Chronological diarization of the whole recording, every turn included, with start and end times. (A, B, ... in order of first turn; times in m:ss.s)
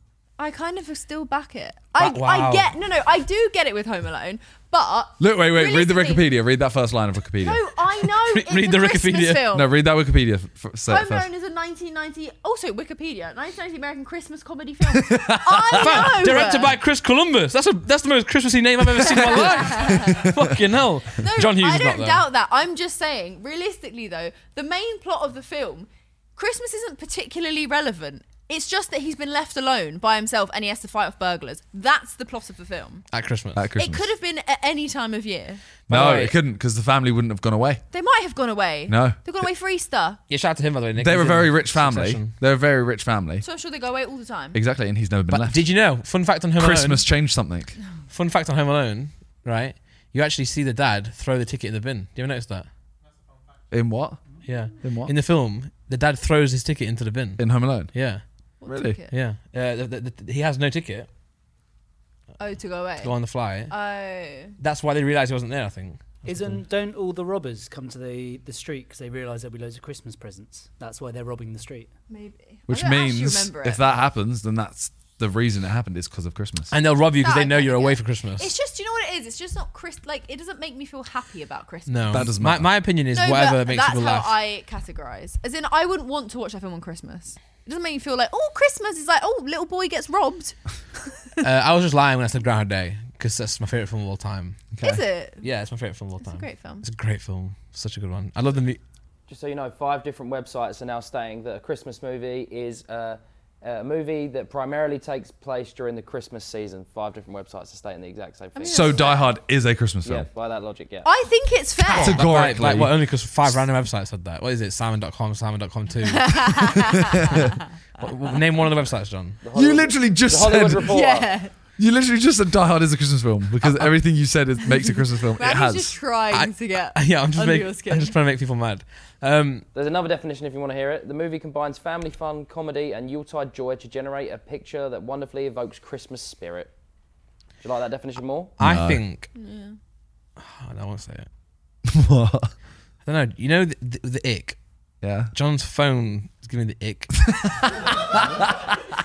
0:00.4-0:06.3 A
0:02.0-0:02.7 B
0:05.2-0:07.6 C
0:07.4-0:09.7 A
0:08.2-0:09.4 B
0:09.5-0:11.3 C
0:10.9-0:16.8 A
0:14.8-0:16.3 C
0:15.7-0:22.2 B
0:19.0-0:20.2 A
0:19.3-0:20.4 C
0:21.1-0:33.0 A
0:33.1-0:33.6 B
0:33.6-0:34.1 C
0:33.8-0:35.6 A
0:35.9-0:36.4 B
0:35.9-0:37.8 C
0:37.9-0:40.2 A
0:38.9-0:39.2 C
0:40.3-0:42.3 B
0:41.0-0:43.4 C
0:43.4-0:44.6 A
0:44.5-0:45.7 C
0:45.3-0:47.0 B
0:46.6-0:47.8 C
0:48.1-0:52.7 B
0:53.7-0:54.2 C
0:54.4-0:58.2 B
0:54.8-0:55.1 C
0:57.4-0:57.9 C
0:58.6-0:59.1 A
0:58.7-0:59.0 C
0:59.1-1:01.1 B
1:02.4-1:03.2 A
1:03.0-1:03.7 B
1:03.7-1:04.6 A
1:04.6-1:06.6 B
1:06.2-1:11.9 D
1:12.1-1:13.8 A
1:12.7-1:16.7 C
1:16.7-1:18.5 B
1:17.1-1:22.3 A
1:21.9-1:24.3 B
1:22.1-1:22.7 C
1:23.1-1:31.3 A
1:31.4-1:34.6 B
1:34.8-1:35.0 C
1:34.8-1:35.4 A
1:35.4-1:38.8 B
1:36.2-1:36.8 A
1:39.3-1:49.0 E
1:48.6-1:49.3 A
1:48.7-1:50.3 C
1:50.0-1:51.1 E
1:51.0-1:52.2 A
1:51.8-1:52.9 C
1:51.9-1:56.7 B
1:56.0-1:57.5 A
1:58.0-1:59.4 B
1:59.4-2:01.3 E
1:59.6-2:00.9 C
2:00.9-2:01.5 A
2:01.8-2:05.9 C
2:03.6-2:03.9 B
2:04.7-2:08.1 A
2:06.3-2:09.6 B
2:09.7-2:16.7 E
2:17.6-2:18.6 E
2:18.6-2:19.3 B
2:18.6-2:19.0 C
2:19.3-2:19.8 A
2:20.4-2:21.3 B
2:21.8-2:22.5 C
2:23.0-2:24.6 B
2:25.0-2:25.3 C
2:25.3-2:27.1 B
2:27.3-2:28.8 C